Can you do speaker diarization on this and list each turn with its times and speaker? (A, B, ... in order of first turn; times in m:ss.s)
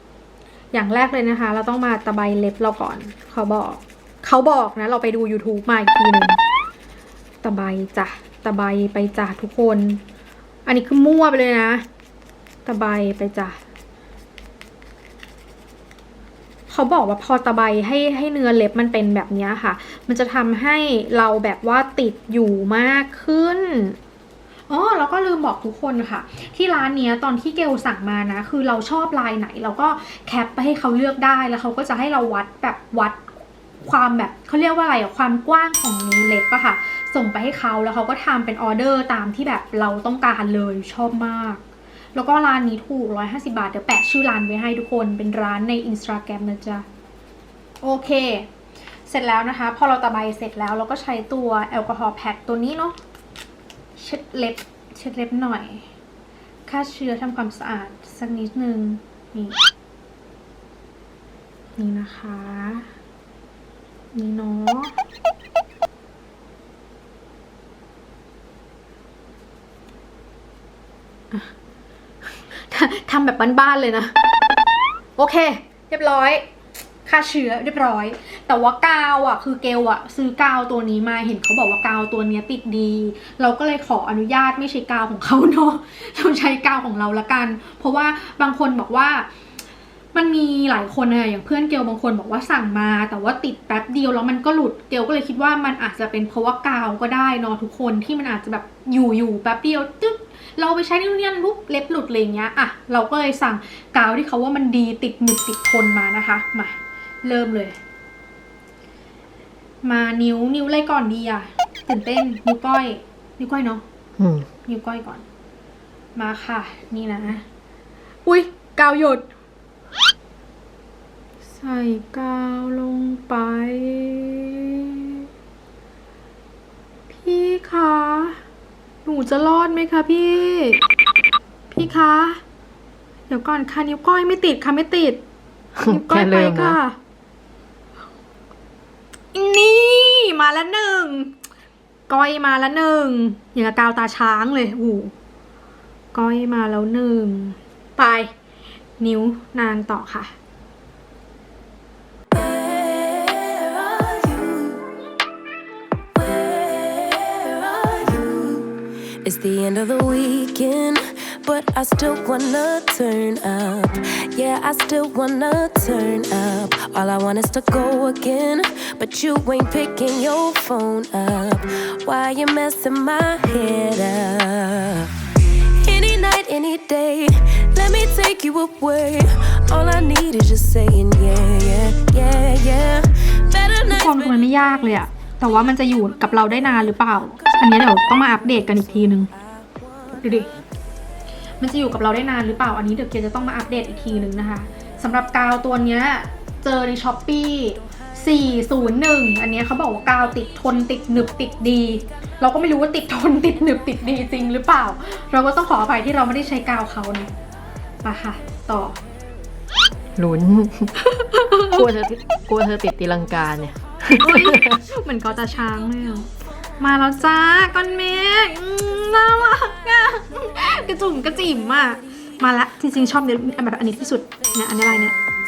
0:00.7-0:06.4 A
0:07.4-0:10.0 A
0:10.6-0:11.8 A
0:12.6-0:13.6 A
0:16.7-0:24.0 A
0:24.7-0:33.3 A
0:33.8-0:41.6 A
0:42.1-0:46.8 A
0:47.8-0:48.5 A
0:49.1-0:53.0 A
0:54.0-0:55.9 A
0:56.7-0:59.6 A
1:01.8-1:02.9 A
1:04.1-1:04.9 A
1:12.5-1:14.1 A
1:15.2-1:16.4 A
1:17.0-1:29.3 A
1:30.1-1:47.8 A
1:49.8-1:53.8 A
1:54.2-1:54.4 B
1:54.6-1:55.2 A
1:56.1-1:57.4 A
1:58.2-1:59.3 A
2:01.6-2:05.2 A
2:07.1-2:08.4 A
2:09.0-2:10.8 A
2:11.7-2:12.4 A
2:13.3-2:15.2 A
2:15.8-2:16.8 B
2:15.8-2:17.0 A
2:19.3-2:21.3 A
2:22.1-2:25.1 A
2:26.1-2:28.3 A
2:29.0-2:30.3 A
2:32.3-2:34.8 C
2:36.1-3:04.6 C
3:03.9-3:09.3 A
3:07.5-3:08.5 C
3:10.1-3:10.5 A
3:11.6-3:27.3 A
3:28.0-3:29.0 A
3:30.2-3:31.0 B
3:31.0-3:31.9 A
3:31.7-3:34.8 B
3:34.2-3:36.3 A
3:36.8-3:45.1 A